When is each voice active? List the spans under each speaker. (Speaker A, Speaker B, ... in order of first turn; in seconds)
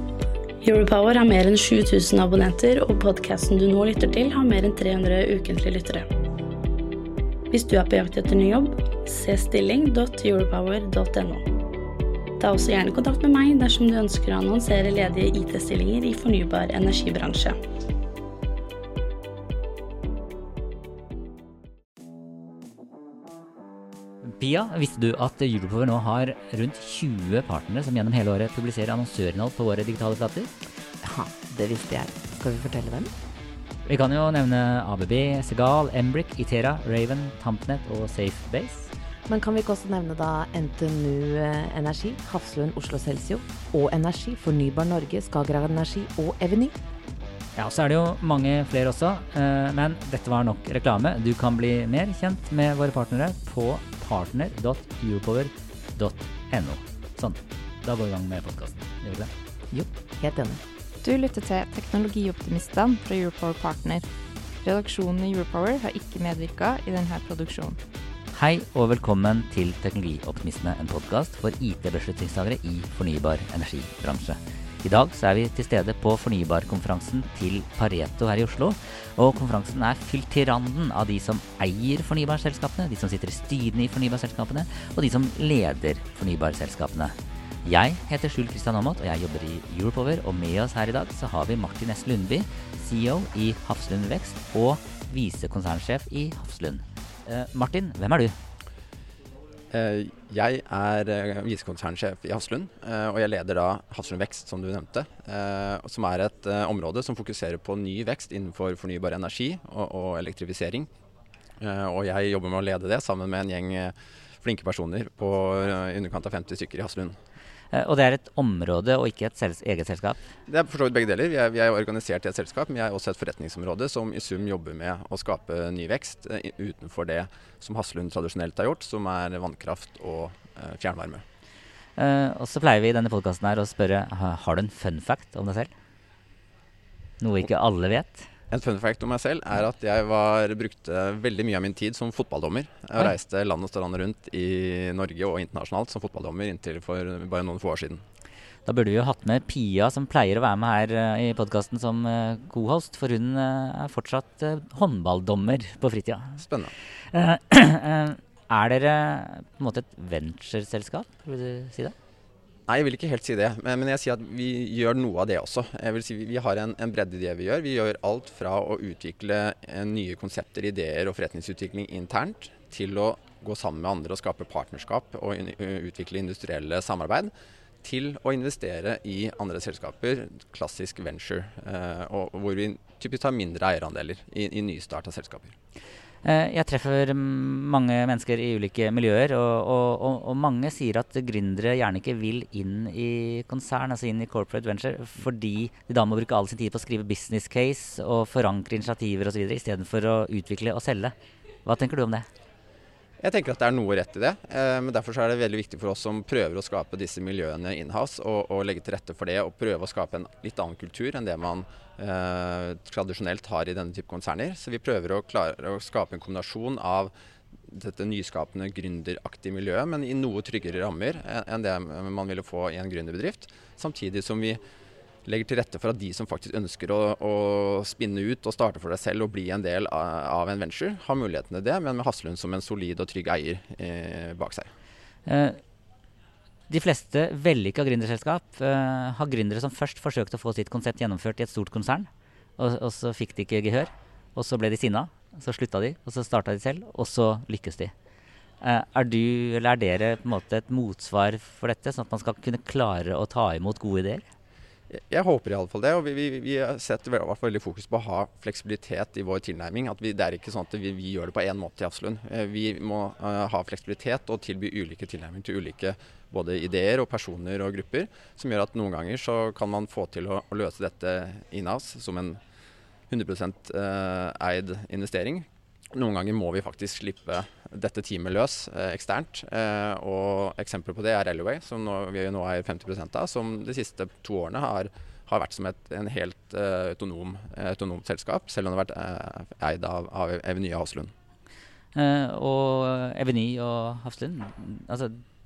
Speaker A: 0.6-6.1, 7.5-11.5, 12.4-17.6
Speaker B: 24.4-30.5, 33.9-38.9, 47.5-59.3, 68.3-98.3, 117.7-120.2, 132.0-135.7, 137.2-138.3, 148.6-156.4, 157.1-161.9, 186.2-201.1, 201.6-202.3, 235.2-235.6, 236.7-247.9, 248.6-254.2, 291.9-295.2
Speaker C: 31.0-33.1, 39.3-46.7, 59.7-60.6
Speaker D: 61.0-64.1, 64.6-67.8
Speaker E: 99.7-110.9, 111.6-117.1, 120.5-131.2, 138.5-148.0, 156.4-156.7, 162.7-177.3, 177.8-185.5, 203.2-217.1, 217.7-224.6, 225.2-234.7, 254.9-272.4, 273.1-291.1